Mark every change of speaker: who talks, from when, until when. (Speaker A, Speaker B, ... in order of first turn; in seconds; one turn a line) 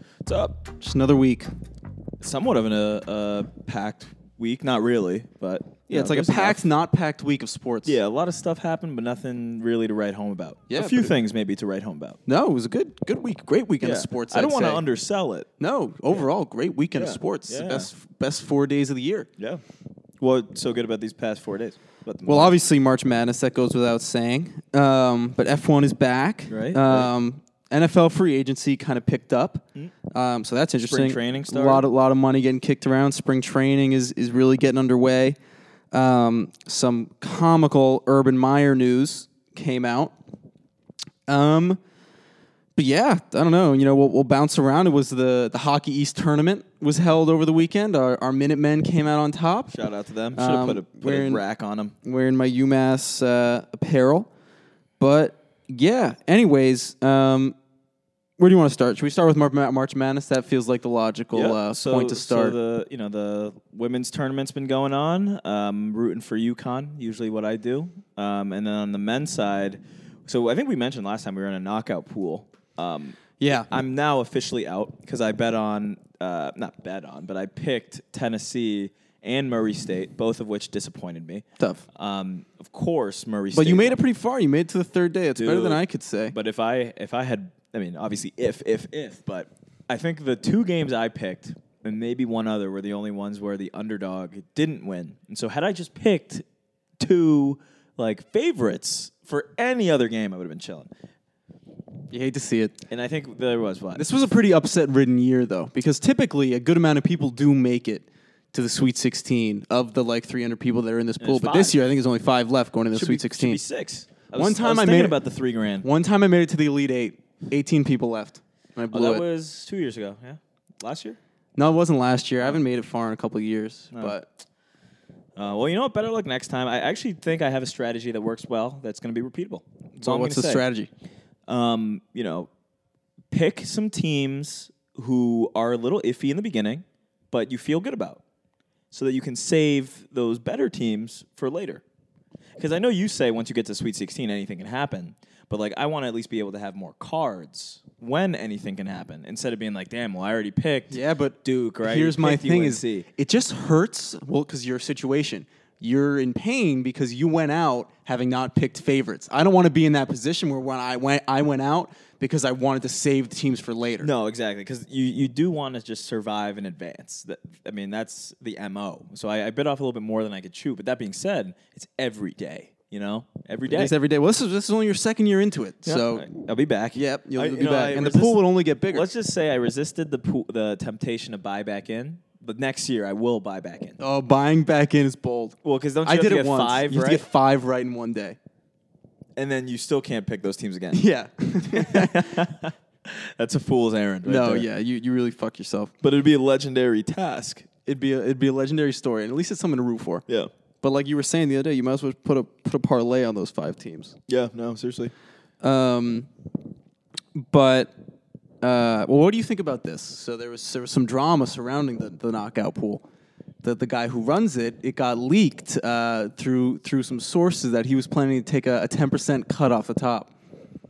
Speaker A: 0.2-0.6
Speaker B: 0.8-1.5
Speaker A: 2.2-6.7
Speaker B: 5.9-8.0
Speaker A: 7.8-12.2
Speaker B: 10.7-11.1
Speaker B: 12.3-14.8
Speaker A: 13.8-15.5
Speaker B: 15.6-19.3
Speaker A: 16.9-17.9
Speaker A: 19.4-19.6
Speaker A: 20.2-22.5
Speaker B: 22.2-35.4
Speaker A: 26.5-27.1
Speaker A: 30.8-31.9
Speaker B: 35.9-40.1
Speaker B: 41.3-41.8
Speaker B: 42.8-49.7
Speaker A: 49.7-51.9
Speaker B: 50.3-51.4
Speaker B: 52.0-54.3
Speaker B: 55.0-57.5
Speaker B: 58.4-62.5
Speaker A: 61.3-84.0
Speaker B: 73.4-73.7
Speaker B: 83.5-86.3
Speaker A: 85.4-96.4
Speaker A: 97.0-100.9
Speaker B: 102.1-102.8
Speaker A: 102.9-104.1
Speaker B: 104.0-113.6
Speaker A: 111.2-111.8
Speaker A: 112.9-115.9
Speaker B: 114.3-115.2
Speaker B: 115.8-119.2
Speaker A: 118.9-121.2
Speaker B: 121.5-124.3
Speaker A: 125.3-130.6
Speaker B: 130.0-130.9
Speaker A: 131.5-132.5
Speaker A: 133.3-138.2
Speaker A: 138.9-141.8
Speaker A: 142.6-153.1
Speaker B: 150.9-164.1
Speaker A: 164.0-173.9
Speaker B: 173.7-176.3
Speaker A: 175.8-184.0
Speaker B: 176.9-179.1
Speaker B: 184.0-188.4
Speaker A: 185.6-187.2
Speaker A: 189.3-191.0
Speaker B: 190.9-192.4
Speaker A: 191.7-194.7
Speaker B: 194.2-195.9
Speaker A: 196.0-197.7
Speaker B: 197.8-200.2
Speaker B: 200.8-204.1
Speaker A: 204.3-205.1
Speaker B: 205.6-206.3
Speaker B: 207.3-207.9
Speaker B: 208.6-213.0
Speaker B: 213.6-220.3